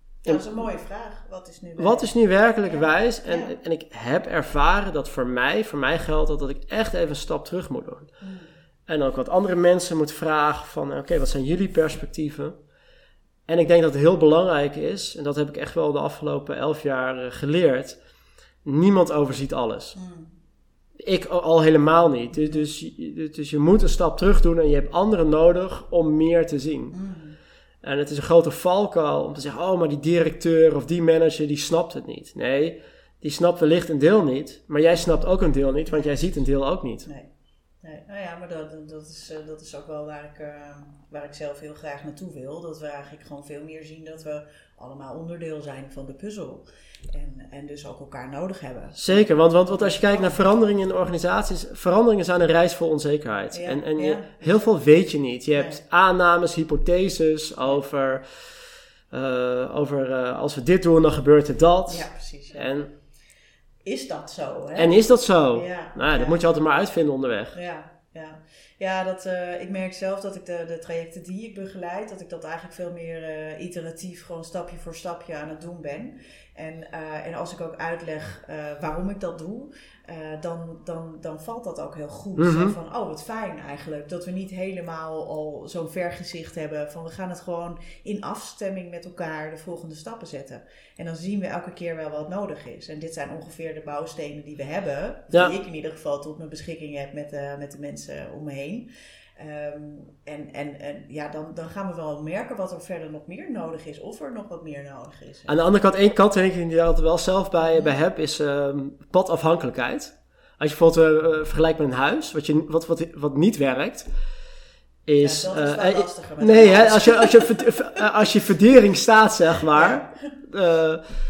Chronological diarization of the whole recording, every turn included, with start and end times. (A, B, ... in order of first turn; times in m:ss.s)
0:00.2-0:02.1 A
0:01.8-0:08.1 B
0:02.6-0:03.5 A
0:08.2-0:08.5 A
0:08.9-0:12.6 B
0:13.5-0:18.0 B
0:18.6-0:20.0 B
0:19.9-0:20.3 A
0:21.0-0:27.0 B
0:22.3-0:22.6 A
0:26.9-0:27.4 A
0:27.8-0:37.1 B
0:35.8-0:36.5 A
0:37.8-0:50.4 A
0:49.0-0:58.3 B
0:53.5-0:54.7 A
0:55.5-0:55.8 A
0:59.1-1:02.9 B
1:01.9-1:02.7 A
1:03.8-1:05.0 A
1:04.8-1:07.5 B
1:05.5-1:06.4 A
1:07.5-1:45.6 A
1:22.4-1:22.7 B
1:45.5-1:54.1 B
1:47.6-1:48.0 A
1:55.0-2:01.0 B
1:55.2-1:58.0 A
1:59.7-2:00.3 A